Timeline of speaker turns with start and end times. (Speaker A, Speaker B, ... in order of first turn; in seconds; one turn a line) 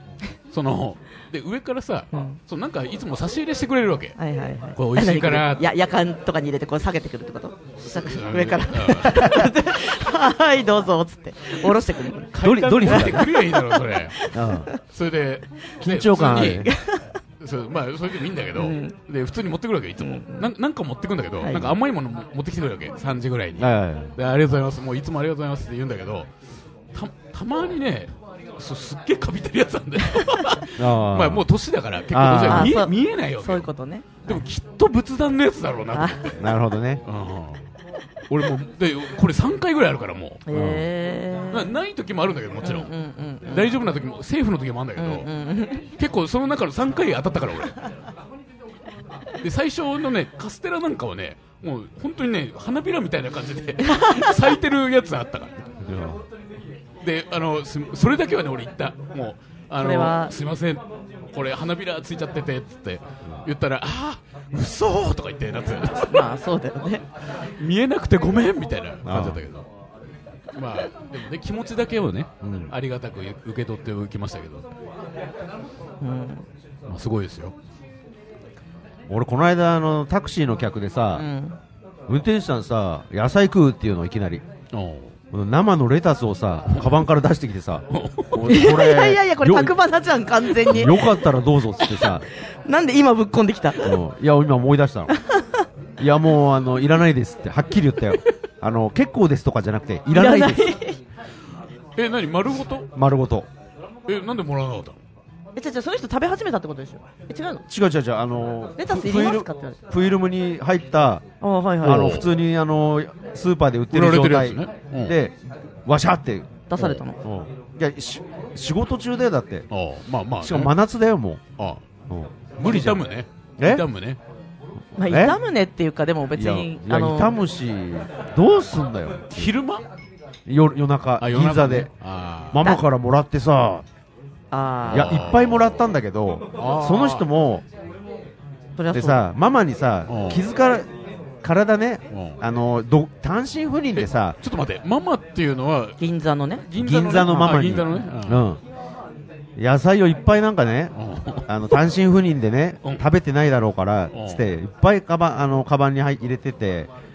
Speaker A: 0.5-4.2
Speaker B: 2.1-2.4
Speaker B: 4.2-12.3
Speaker A: 4.8-5.7
Speaker A: 7.9-9.5
Speaker A: 12.3-14.2
Speaker C: 12.4-13.3
Speaker B: 12.9-14.8
Speaker C: 14.3-14.7
Speaker A: 14.9-16.7
Speaker C: 15.8-16.7
Speaker B: 16.6-17.1
Speaker A: 17.4-26.3
Speaker B: 18.6-18.9
Speaker B: 20.0-20.5
Speaker B: 21.4-21.7
Speaker C: 23.6-24.1
Speaker A: 26.9-33.7
Speaker C: 30.8-31.5
Speaker C: 32.1-32.8
Speaker B: 32.5-34.1
Speaker A: 34.2-36.4
Speaker B: 35.9-36.3
Speaker C: 36.4-37.0
Speaker A: 37.0-37.6
Speaker A: 38.3-40.4
Speaker B: 40.5-41.7
Speaker C: 40.5-40.9
Speaker A: 41.5-42.9
Speaker B: 42.6-43.8
Speaker A: 43.4-45.3
Speaker B: 45.0-45.9
Speaker A: 46.0-47.8
Speaker A: 49.4-55.6
Speaker B: 53.8-54.3
Speaker C: 55.8-56.2
Speaker A: 57.0-66.3
Speaker B: 59.8-60.3
Speaker B: 66.1-67.0
Speaker A: 67.6-69.7
Speaker C: 69.0-69.4
Speaker A: 70.5-74.7
Speaker C: 72.4-72.7
Speaker B: 76.0-76.4
Speaker A: 76.9-77.5
Speaker C: 79.1-81.2
Speaker B: 81.2-81.6
Speaker C: 82.1-84.4
Speaker A: 84.7-85.2
Speaker C: 85.3-89.7
Speaker A: 87.9-88.5
Speaker B: 88.5-91.2
Speaker C: 90.7-92.3
Speaker B: 91.8-92.1
Speaker B: 92.7-94.0
Speaker C: 93.8-95.1
Speaker B: 95.1-95.6
Speaker C: 96.0-100.7
Speaker B: 100.1-101.0
Speaker A: 102.0-102.9
Speaker C: 103.0-103.5
Speaker A: 104.1-105.0
Speaker B: 105.6-107.6
Speaker C: 107.7-111.2
Speaker B: 108.8-109.8
Speaker B: 111.4-112.2
Speaker C: 111.8-119.7
Speaker A: 111.8-112.3
Speaker A: 113.9-115.2
Speaker B: 116.7-117.2
Speaker A: 119.7-120.7
Speaker C: 120.4-121.4
Speaker C: 122.1-123.1
Speaker A: 122.6-124.2
Speaker C: 123.6-123.8
Speaker B: 125.0-127.3
Speaker C: 125.0-125.4
Speaker C: 126.4-129.5
Speaker A: 129.3-129.8
Speaker C: 130.5-131.9
Speaker A: 131.2-132.6
Speaker C: 132.5-133.8
Speaker B: 134.5-135.2
Speaker A: 134.8-135.8
Speaker C: 134.9-137.6
Speaker A: 136.6-137.2
Speaker B: 138.8-139.3
Speaker C: 138.9-140.9
Speaker A: 140.1-140.4
Speaker C: 141.4-144.4
Speaker A: 142.1-142.4
Speaker A: 143.9-146.0
Speaker B: 146.0-146.7
Speaker A: 146.7-148.5
Speaker C: 146.8-148.6
Speaker C: 149.6-150.9
Speaker A: 150.9-151.8
Speaker C: 151.5-156.9
Speaker A: 154.1-154.4